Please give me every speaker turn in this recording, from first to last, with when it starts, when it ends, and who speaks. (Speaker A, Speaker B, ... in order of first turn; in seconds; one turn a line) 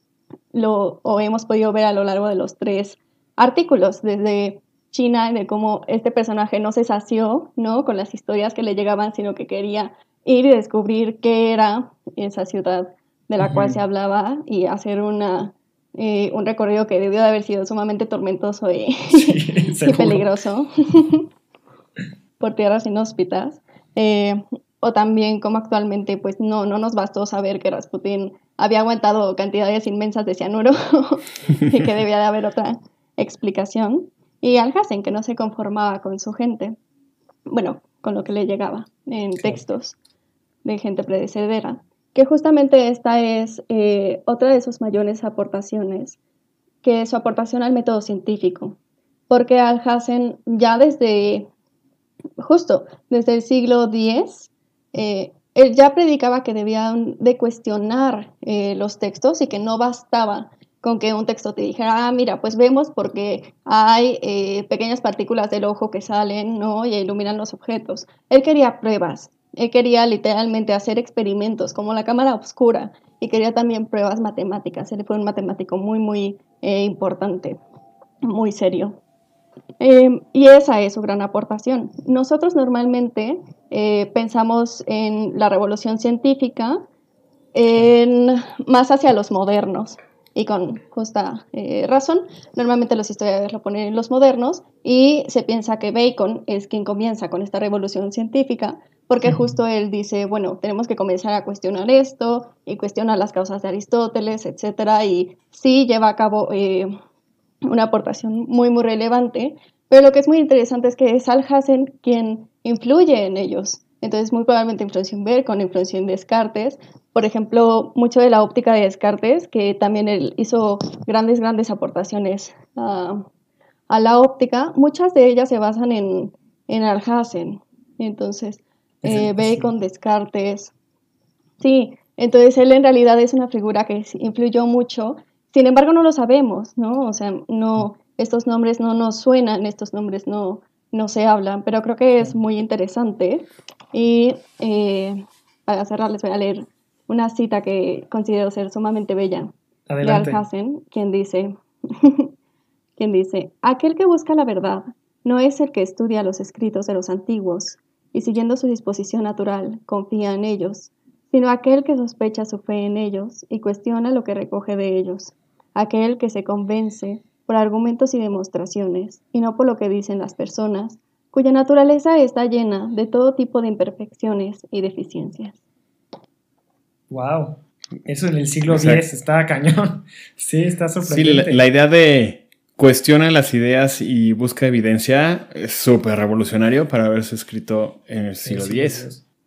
Speaker A: 0.5-21.3
Speaker B: 13.4-13.8
Speaker B: 19.1-20.3
Speaker A: 22.4-36.8
Speaker A: 37.5-40.0
Speaker B: 39.4-39.6
Speaker A: 40.6-46.2
Speaker A: 46.8-48.8
Speaker A: 49.3-51.5
Speaker A: 52.4-77.6
Speaker A: 78.2-79.0
Speaker A: 79.8-86.8
Speaker A: 87.5-107.0
Speaker A: 107.6-123.3
Speaker A: 123.9-130.7
Speaker B: 129.0-129.7
Speaker A: 131.6-149.5
Speaker B: 149.9-150.4
Speaker A: 150.0-152.3
Speaker A: 153.0-175.6
Speaker B: 177.1-181.6
Speaker C: 178.7-179.0
Speaker C: 181.0-189.0
Speaker B: 188.4-189.2